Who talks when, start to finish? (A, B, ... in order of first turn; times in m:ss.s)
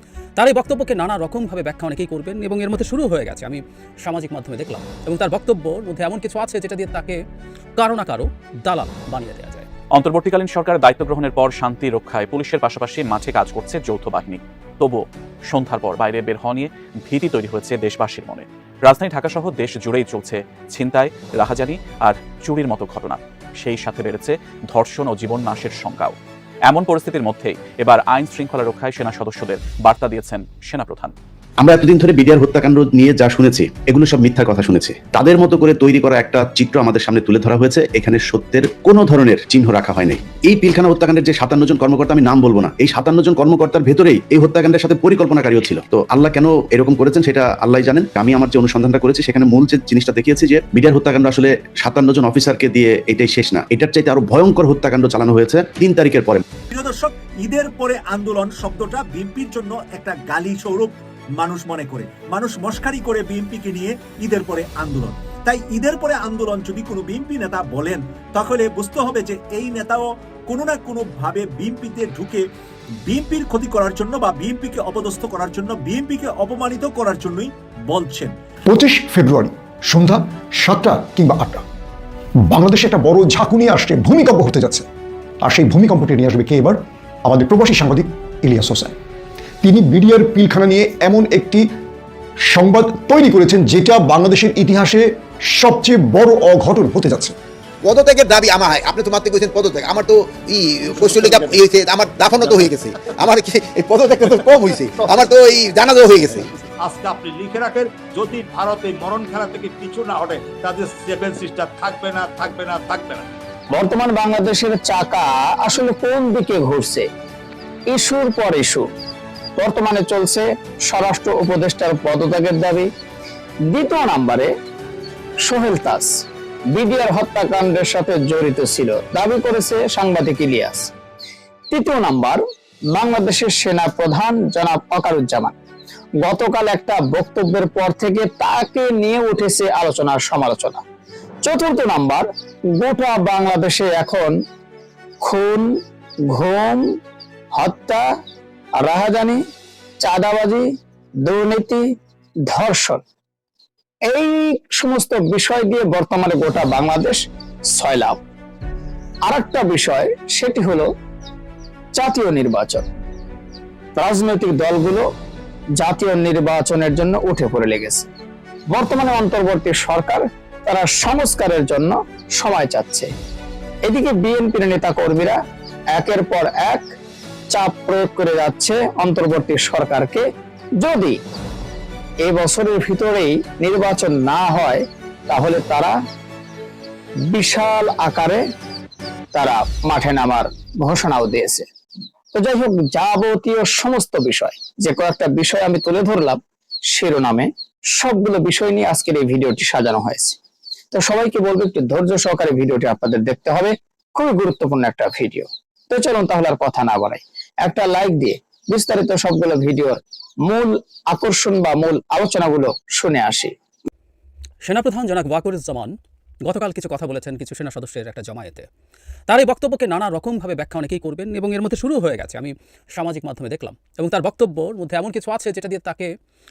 0:00.4-0:07.2 A
0:07.8-0:09.7 A
0:09.9-0:31.2 B
0:31.6-0:56.4 C
0:56.7-1:12.4 D
1:13.1-1:18.3 D
1:18.7-1:21.6 E
1:22.5-1:24.9 E
1:25.4-1:28.9 E
1:29.6-1:31.7 E
1:32.4-1:37.4 E
1:37.8-1:46.5 F
1:41.1-1:41.5 G
1:42.4-1:42.7 G
1:46.8-1:53.3 G
1:53.7-1:57.1 H
1:57.9-1:58.9 H
1:59.6-2:02.9 H
2:03.7-2:04.5 H
2:05.4-2:10.9 H
2:11.7-2:12.4 H
2:12.9-2:15.5 H
2:16.2-2:20.8 H
2:21.4-2:24.4 H
2:25.2-2:25.7 H
2:26.3-2:27.0 H
2:27.5-2:28.1 H
2:28.8-2:29.4 H
2:30.0-2:30.7 H
2:31.2-2:31.9 H
2:32.5-2:33.0 H
2:34.1-2:38.2 H
2:39.3-2:40.9 H
2:41.9-2:42.9 H
2:44.0-2:45.0 H
2:45.8-2:48.1 H
2:48.7-2:53.1 H
2:53.8-2:55.4 H
2:55.9-2:56.9 H
2:57.5-3:00.2 H
3:00.8-3:01.2 H
3:02.2-3:06.0 H
3:07.3-3:08.4 H
3:09.3-3:11.7 H
3:12.3-3:16.4 H
3:16.9-3:20.4 H
3:20.9-3:33.6 H
3:34.6-3:35.9 A
3:36.5-3:38.7 A
3:39.3-3:46.1 A